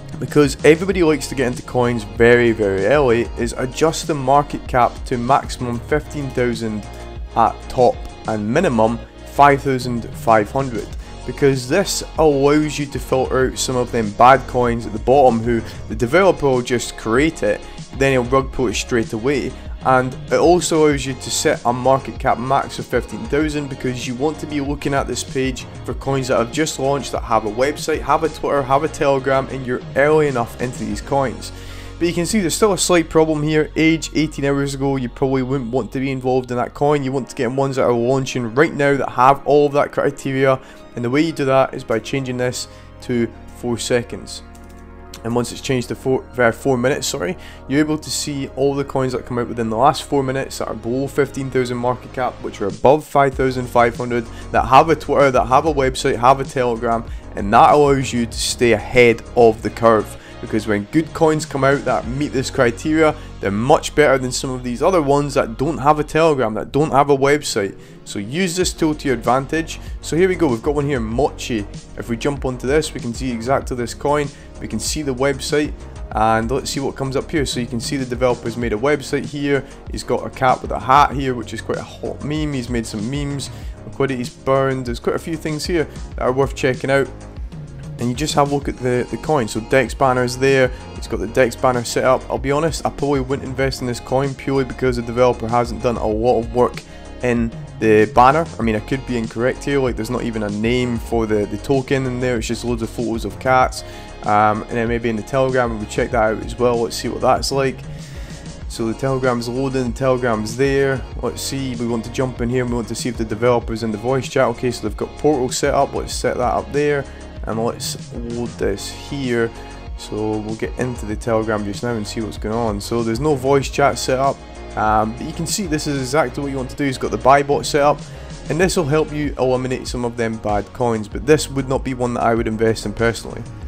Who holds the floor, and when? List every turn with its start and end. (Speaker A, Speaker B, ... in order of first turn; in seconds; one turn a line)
Speaker A: 0.2-44.4
Speaker A: 45.2-87.1
Speaker A: 88.0-107.9
Speaker A: 108.7-133.5